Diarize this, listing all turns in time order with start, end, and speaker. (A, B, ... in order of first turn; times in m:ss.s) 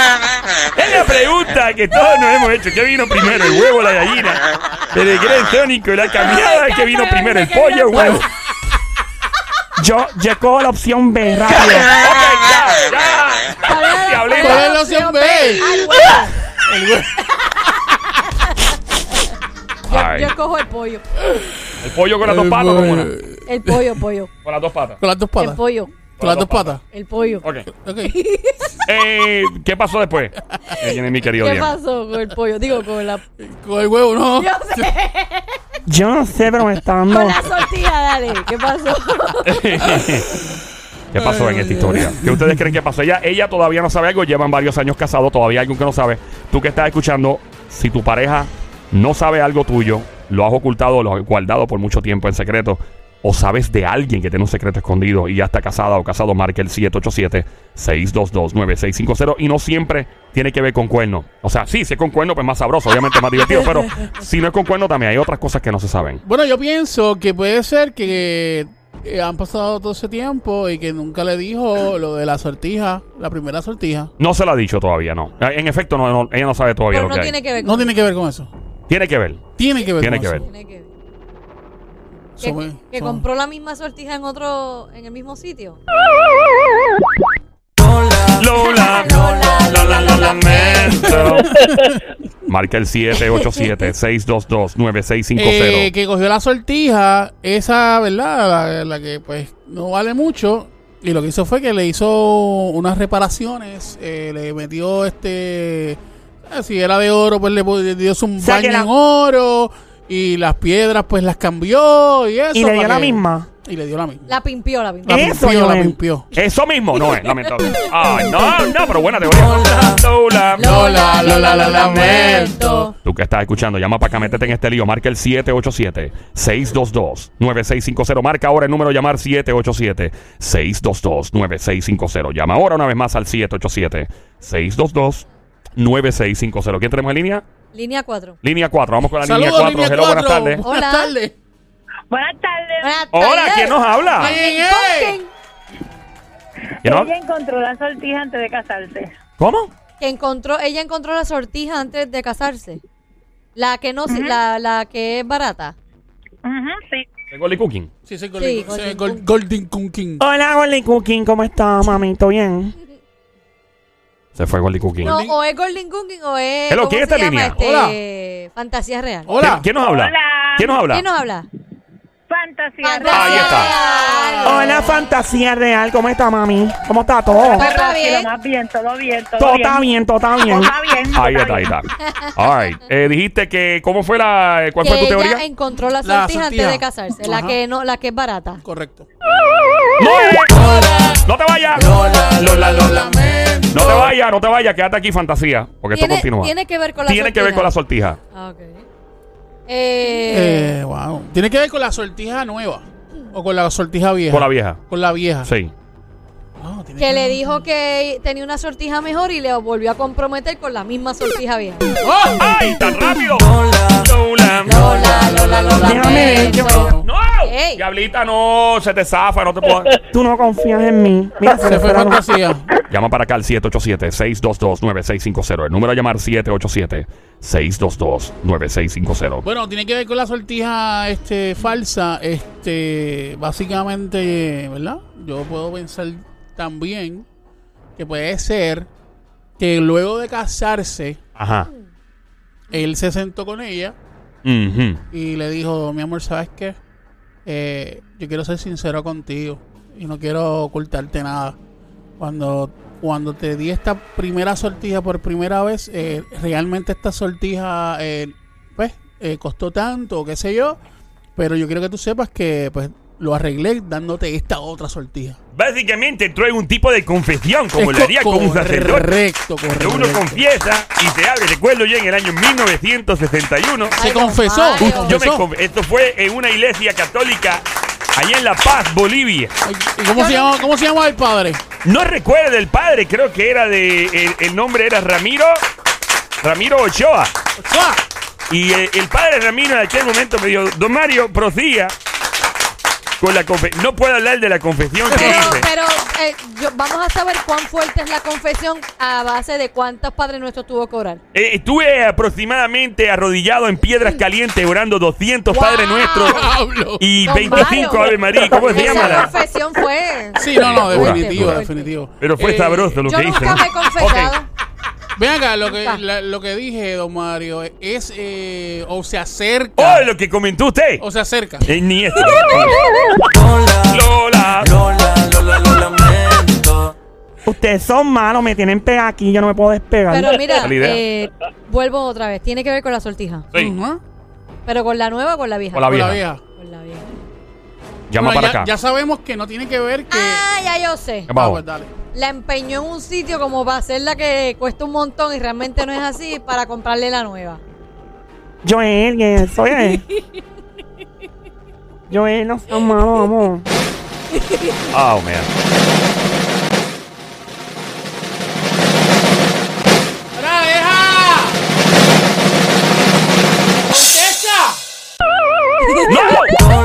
0:00.8-0:08.2 A
0:06.3-0:08.3 B
0:09.8-0:12.0 C
0:11.6-0:14.7 A
0:13.7-0:16.3 B
0:14.4-0:17.2 D
0:19.9-0:20.3 A
0:19.9-0:21.1 B
0:21.8-0:23.1 A
0:22.2-0:23.9 D
0:23.5-0:24.3 B
0:24.4-0:25.0 A
0:25.0-0:25.6 D
0:25.4-0:25.9 B
0:26.2-0:26.8 A
0:26.2-0:26.8 D
0:26.9-0:27.4 B
0:27.4-0:27.7 A
0:27.7-0:28.2 D
0:28.0-0:28.7 B
0:28.9-0:31.7 A
0:31.4-0:33.2 B
0:33.4-0:34.9 D
0:34.4-0:35.6 B
0:35.9-0:37.5 C
0:37.1-0:39.6 B
0:39.4-0:40.3 A
0:39.8-0:40.6 D
0:41.1-0:42.7 D
0:41.1-1:06.2 A
1:06.2-1:14.1 D
1:14.2-1:17.3 A
1:16.9-1:17.9 B
1:17.6-1:18.5 D
1:18.9-1:19.4 A
1:19.6-1:20.4 D
1:20.0-1:20.4 A
1:20.4-1:20.9 B
1:22.4-1:23.2 D
1:22.4-1:25.8 B
1:28.4-1:31.5 A
1:28.6-1:31.3 B
1:31.1-1:32.0 D
1:32.5-1:35.9 A
1:35.4-1:54.3 D
1:48.4-1:48.9 C
1:52.5-1:53.5 C
1:54.3-1:55.4 B
1:55.0-1:56.3 D
1:55.1-1:56.0 C
1:56.4-2:00.7 A
2:00.6-2:02.9 D
2:00.6-2:02.9 B
2:03.0-2:15.3 A
2:15.8-2:17.4 A
2:17.7-2:18.4 B
2:18.4-2:20.6 A
2:19.2-2:21.3 D
2:20.6-2:21.1 B
2:22.1-2:22.9 E
2:22.8-2:25.3 B
2:23.1-2:24.4 A
2:24.2-2:25.2 D
2:26.8-2:27.1 A
2:26.8-2:29.1 E
2:29.4-2:29.7 A
2:30.0-2:32.8 B
2:33.6-2:35.8 B
2:34.1-2:34.4 E
2:36.4-2:37.1 E
2:37.3-2:37.9 A
2:38.1-2:40.2 D
2:38.4-2:39.2 B
2:40.2-2:42.8 C
2:44.4-2:45.1 A
2:45.0-2:45.4 D
2:45.0-2:49.4 B
2:46.7-2:47.6 A
2:47.6-2:48.0 D
2:49.3-2:49.7 D
2:49.4-2:51.0 A
2:49.8-2:50.8 E
2:50.9-2:51.5 B
2:52.3-2:54.6 E
2:52.8-2:54.8 B
2:53.1-2:53.7 A
2:54.4-2:57.7 C
2:57.5-3:01.8 E
2:57.5-2:58.3 B
2:59.4-3:00.7 C
3:01.1-3:05.4 A
3:04.8-3:08.6 B
3:06.0-3:07.6 D
3:08.6-3:09.1 D
3:10.0-3:13.1 A
3:10.5-3:14.1 D
3:13.7-3:16.5 A
3:15.9-3:17.7 B
3:17.1-3:18.2 A
3:18.3-3:18.8 B
3:19.7-3:20.8 B
3:20.3-3:25.5 D
3:24.3-3:24.8 A
3:25.4-3:25.7 A
3:26.6-3:27.4 D
3:27.0-3:31.9 B
3:32.0-3:32.5 D
3:32.4-3:35.1 A
3:34.6-3:37.8 B
3:35.8-3:36.9 C
3:35.9-3:37.1 D
3:37.0-3:40.0 A
3:40.1-3:42.2 C
3:41.5-3:42.7 D
3:42.9-3:49.5 A
3:49.4-3:57.2 D
3:58.0-3:58.9 D
3:59.6-4:01.2 D
4:01.4-4:01.7 A
4:02.7-4:04.0 D
4:04.4-4:05.0 A
4:05.1-4:06.8 D
4:07.5-4:11.6 D
4:12.2-4:20.8 D
4:21.4-4:25.4 D
4:25.5-4:29.2 A
4:27.8-4:30.4 D
4:29.8-4:34.0 A
4:34.0-4:35.2 B
4:34.0-4:35.5 D
4:34.8-4:37.6 A
4:38.2-4:39.6 A
4:39.6-4:41.6 D
4:40.1-4:40.5 B
4:41.8-4:45.5 A
4:46.4-4:47.3 A
4:47.6-4:48.0 D
4:48.5-4:52.0 A
4:53.2-4:55.7 A
4:55.1-5:01.2 B
4:55.1-4:55.6 D
5:01.3-5:06.4 A
5:05.5-5:06.5 B
5:06.3-5:09.4 D
5:07.0-5:09.3 A
5:07.3-5:08.2 B
5:08.7-5:11.9 B
5:10.4-5:13.0 D
5:10.6-5:11.6 A
5:12.2-5:14.3 A
5:13.0-5:14.5 B
5:15.2-5:20.1 D
5:15.7-5:16.0 B
5:19.8-5:21.0 A
5:21.0-5:21.7 D
5:21.6-5:22.9 A
5:23.9-5:24.8 A
5:27.5-5:30.5 C
5:30.1-5:33.5 B
5:30.6-5:31.0 A
5:33.6-5:34.0 D
5:34.7-5:37.1 B
5:35.7-5:36.2 A
5:35.9-5:36.4 D
5:38.1-5:38.7 A
5:38.2-5:40.4 D
5:40.1-5:41.3 B
5:41.3-5:41.6 A
5:41.3-5:41.9 D
5:42.1-5:47.6 B
5:48.6-5:50.0 C
5:52.1-5:53.6 C
5:54.9-5:55.5 A
6:00.4-6:01.6 D
6:03.9-6:04.8 D
6:06.0-6:06.6 A